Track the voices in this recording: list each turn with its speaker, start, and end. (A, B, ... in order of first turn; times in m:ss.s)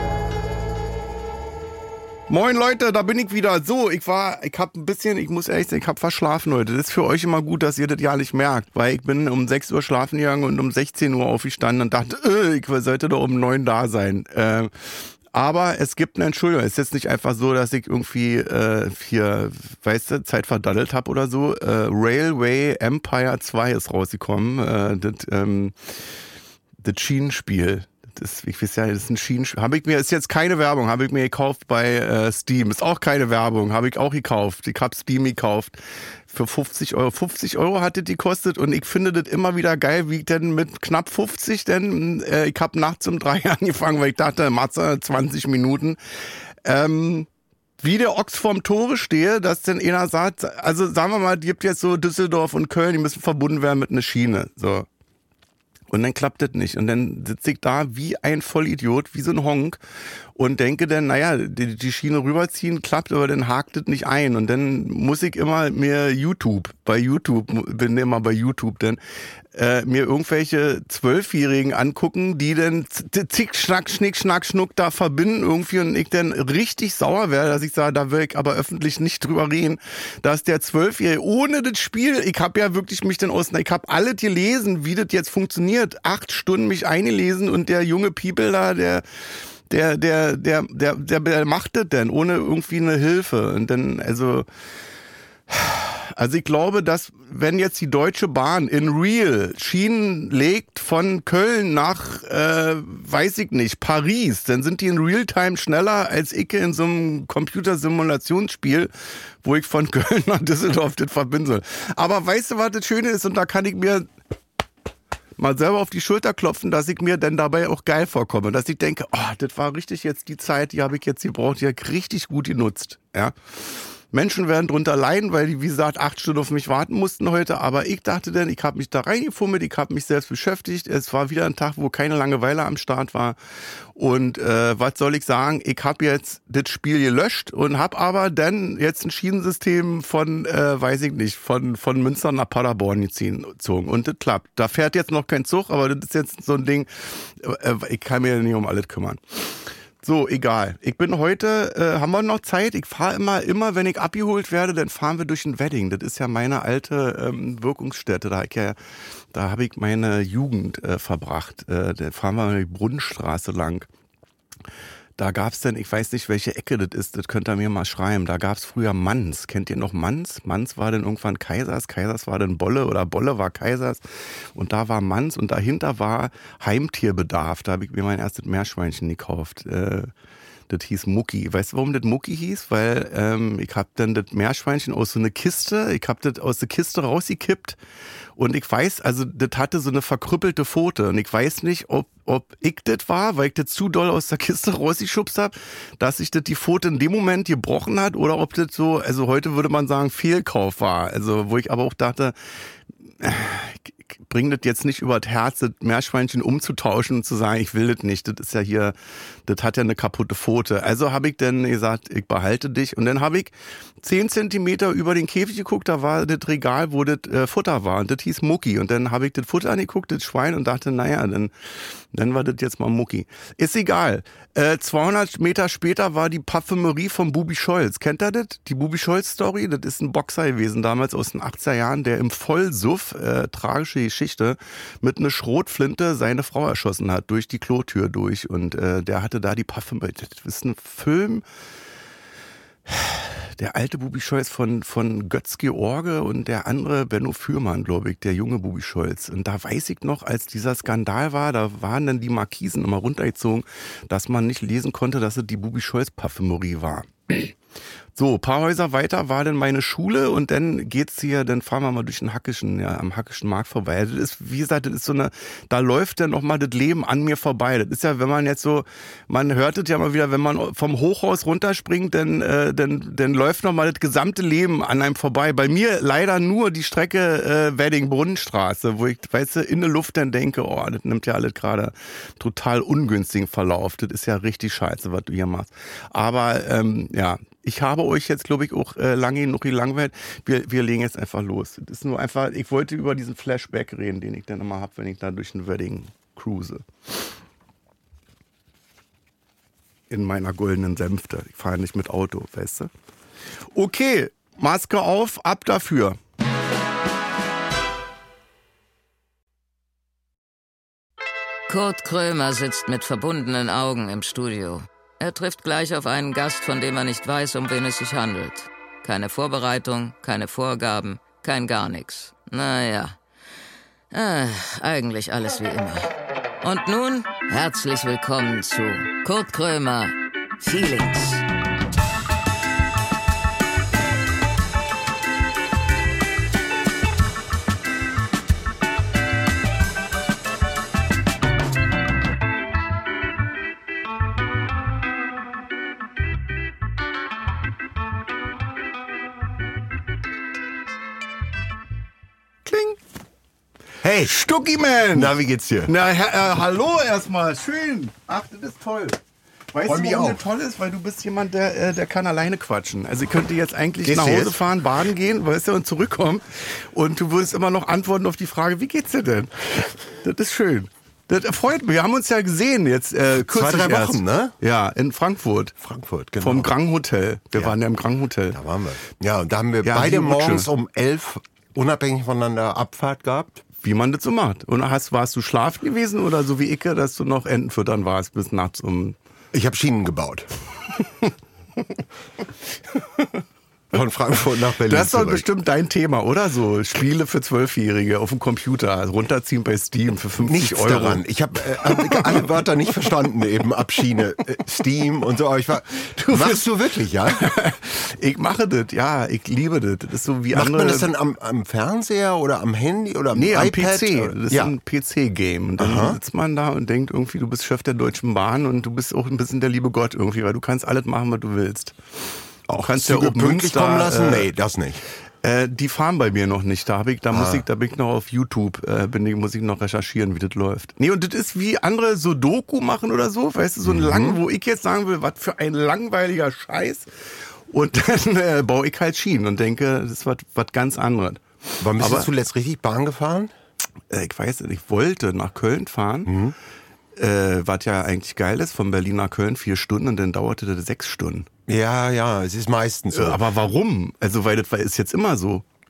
0:02.3-0:25.8 A
0:26.8-0:35.8 A
0:36.3-0:46.0 A
0:46.6-0:47.3 A
0:47.8-0:54.9 A
0:55.9-0:59.8 A
1:00.4-1:09.0 A
1:09.5-1:29.0 A
1:29.7-1:34.5 A
1:35.5-1:54.1 A
1:55.4-2:13.4 A
2:14.0-2:29.4 A
2:30.0-2:38.8 A
2:39.3-2:43.9 A
2:45.2-2:54.0 A
2:54.6-3:00.1 A
3:00.7-3:07.8 A
3:08.4-3:22.3 A
3:23.2-3:29.0 A
3:29.5-4:01.4 A
4:02.9-4:17.6 A
4:18.2-4:56.8 A
5:00.1-5:02.9 A
5:03.7-5:06.2 A
5:11.7-5:23.2 B
5:24.1-5:26.1 B
5:26.6-5:31.5 B
5:52.6-5:53.0 A
5:54.0-5:54.3 C
5:54.2-5:55.3 A
5:55.1-5:55.9 C
5:55.9-5:59.2 A
5:59.7-6:15.8 A
5:59.8-6:00.4 C
6:04.0-6:04.6 C
6:13.3-6:14.5 C
6:15.8-6:16.7 C
6:16.4-6:18.6 A
6:18.5-6:23.6 C
6:19.8-6:20.7 A
6:23.8-6:29.2 A
6:29.5-6:30.5 C
6:33.0-6:33.3 A
6:33.9-6:35.5 C
6:34.8-6:42.5 A
6:40.4-6:47.5 C
6:46.0-6:46.6 A
6:47.2-6:51.1 A
6:50.5-6:54.7 C
6:53.3-7:02.0 A
6:55.8-6:56.2 C
7:02.7-7:04.5 A
7:02.8-7:05.0 C
7:05.4-7:17.1 A
7:07.3-7:07.7 C
7:13.8-7:14.4 C
7:17.7-7:22.3 A
7:21.8-7:23.5 C
7:24.1-7:26.3 A
7:26.3-7:26.6 C
7:27.2-7:31.5 A
7:31.7-7:33.4 C
7:33.1-7:35.6 A